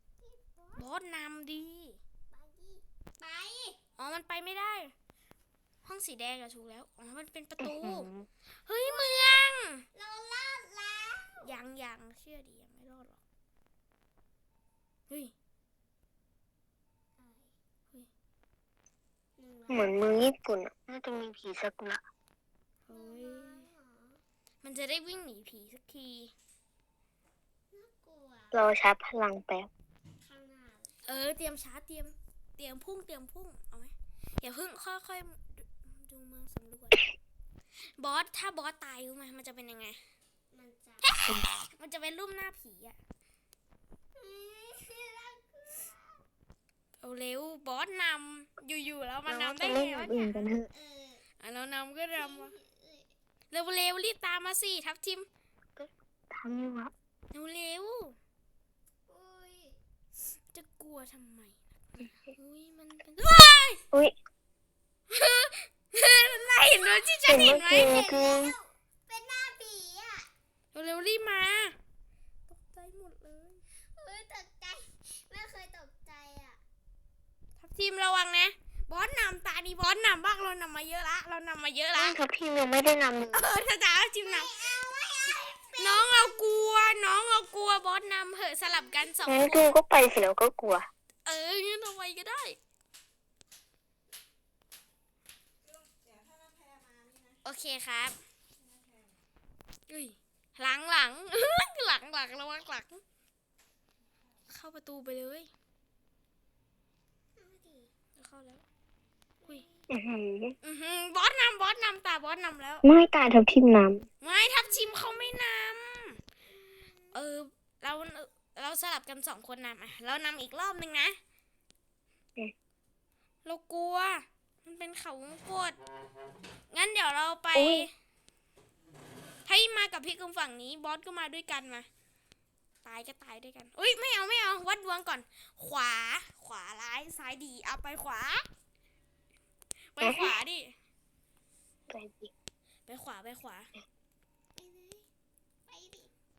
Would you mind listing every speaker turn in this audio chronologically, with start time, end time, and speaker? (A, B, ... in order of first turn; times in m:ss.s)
0:00.2-0:00.9 A
0:00.8-0:02.0 B
0:02.3-0:03.8 A
0:04.0-0:04.9 B
0:05.8-0:08.1 B
0:07.6-0:08.3 C
0:08.7-0:09.9 B
0:08.8-0:09.4 A
0:09.9-0:11.5 A
0:11.4-0:13.2 B
0:15.1-0:15.3 B
0:17.2-0:17.5 A
0:19.4-0:20.1 A
0:19.7-0:22.0 C
0:22.9-0:23.7 B
0:22.9-0:24.2 A
0:24.6-0:26.3 B
0:27.7-0:28.6 A
0:28.5-0:29.7 C
0:30.2-0:31.0 A
0:31.1-0:37.0 B
0:38.0-0:40.0 B
0:40.5-0:41.1 A
0:41.0-0:43.0 B
0:44.2-0:46.2 A
0:47.0-0:50.4 B
0:49.3-0:50.7 C
0:50.6-0:51.2 A
0:51.4-0:52.5 B
0:52.2-0:53.1 A
0:53.5-0:55.3 B
0:55.8-0:56.9 C
0:57.3-0:58.2 B
0:59.1-0:59.8 A
1:00.5-1:03.8 B
1:05.1-1:08.2 B
1:06.6-1:10.3 A
1:07.3-1:08.6 C
1:10.7-1:11.8 B
1:12.5-1:13.6 B
1:14.0-1:16.6 A
1:17.6-1:22.2 B
1:22.0-1:23.5 C
1:23.3-1:24.8 B
1:24.2-1:26.4 A
1:25.8-1:29.7 B
1:28.7-1:29.1 A
1:29.3-1:30.9 C
1:31.3-1:32.6 B
1:37.4-1:38.2 B
1:39.9-1:43.0 B
1:44.5-1:45.5 B
1:47.4-1:47.9 A
1:48.2-1:48.6 B
1:49.4-1:49.9 A
1:49.9-1:50.6 C
1:50.6-1:52.8 B
1:52.8-1:54.1 C
1:54.2-1:56.2 B
1:56.5-1:57.1 A
1:57.1-2:01.2 B
2:03.4-2:05.8 B
2:06.7-2:07.9 B
2:07.6-2:07.9 C
2:09.5-2:11.9 B
2:12.8-2:18.5 B
2:20.0-2:20.7 B
2:20.0-2:20.3 C
2:21.9-2:22.3 C
2:22.9-2:23.7 B
2:24.6-2:25.1 A
2:25.7-2:26.1 A